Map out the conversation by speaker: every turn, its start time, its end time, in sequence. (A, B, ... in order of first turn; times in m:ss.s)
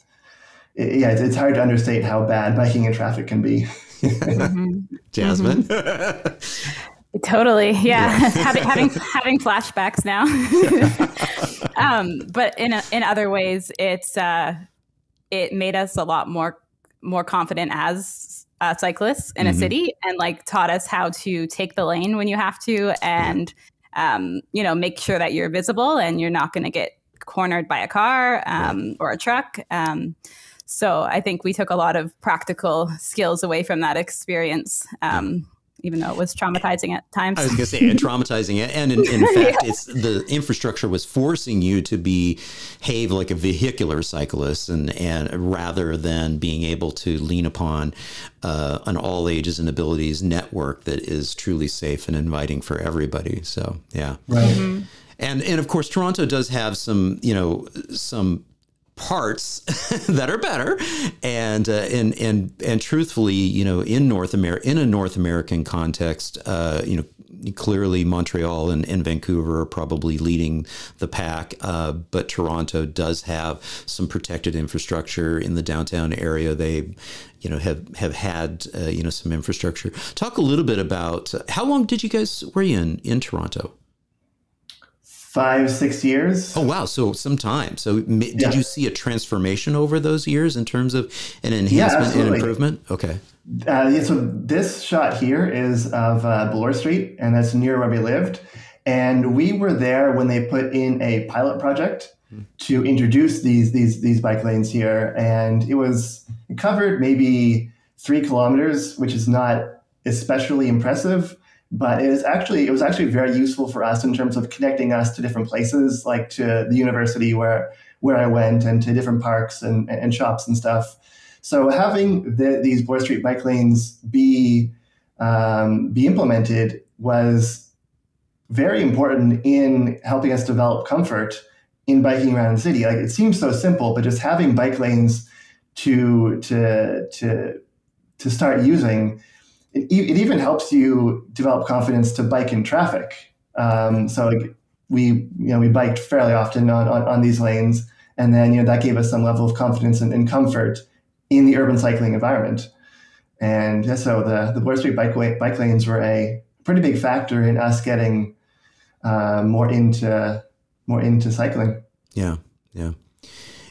0:00.8-0:04.4 A
0:04.0-0:04.5 B
0:04.3-0:05.7 C
0:05.1-0:06.7 B
0:07.1-0:14.6 C
0:07.9-0:09.0 B
0:10.6-0:11.6 B
0:15.3-0:30.2 C
0:19.4-0:19.7 B
0:30.7-0:38.0 C
0:37.4-0:54.5 B
0:39.0-0:39.7 C
0:54.3-0:54.6 A
0:54.4-0:54.9 C
0:55.2-0:58.4 B
0:59.0-1:23.7 B
1:25.1-1:26.6 A
1:26.5-1:33.2 B
1:31.7-1:32.6 A
1:33.4-2:07.7 A
2:08.5-2:17.6 A
2:18.2-2:19.2 A
2:19.7-2:32.7 A
2:33.4-2:38.3 A
2:39.0-2:41.8 A
2:42.1-2:43.0 B